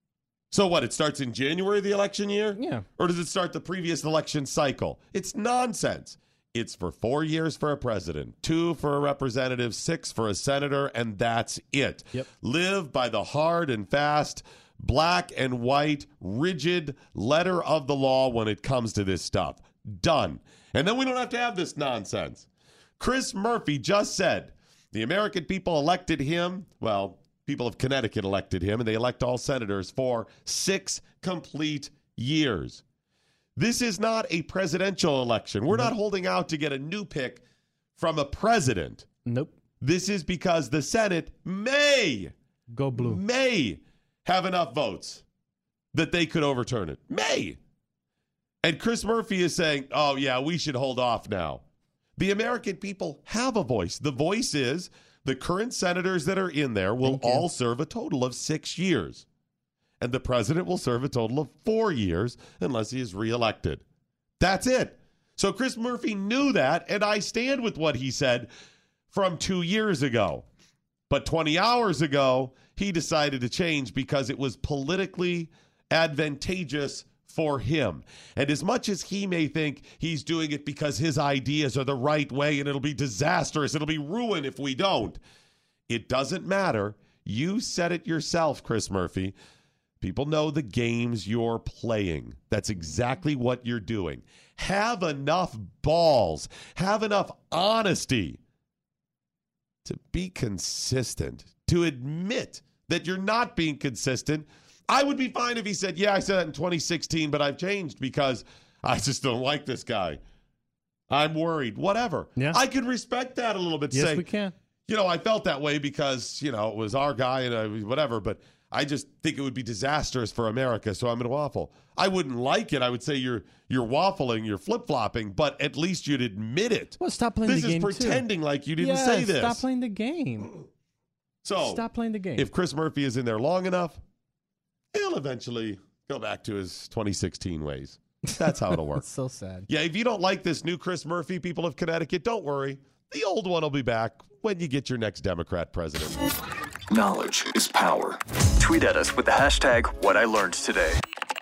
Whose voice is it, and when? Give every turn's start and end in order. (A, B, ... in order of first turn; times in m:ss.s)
0:00.5-0:22.5 A
0:02.5-0:02.8 B
0:23.0-0:32.8 A
0:33.6-0:37.4 A
0:38.0-0:39.0 A
0:39.2-0:39.6 B
0:39.8-0:42.3 A
0:42.7-0:43.2 B
0:42.9-0:45.2 A
0:45.9-0:47.6 A
0:48.6-0:51.6 A
0:52.2-0:59.2 A
0:57.0-0:57.4 B
1:00.0-1:03.8 A
1:04.4-1:08.5 A
1:09.1-1:10.5 A
1:11.1-1:25.2 A
1:25.9-1:29.4 A
1:30.0-1:38.4 A
1:39.8-1:50.2 A
1:51.1-1:54.3 A
1:52.4-1:52.6 B
1:53.9-1:54.5 B
1:54.9-2:09.6 A
2:07.0-2:10.6 B
2:11.4-2:14.0 A
2:11.6-2:12.5 B
2:14.9-2:19.0 A
2:18.3-2:19.7 B
2:19.7-2:26.2 A
2:26.9-2:31.0 C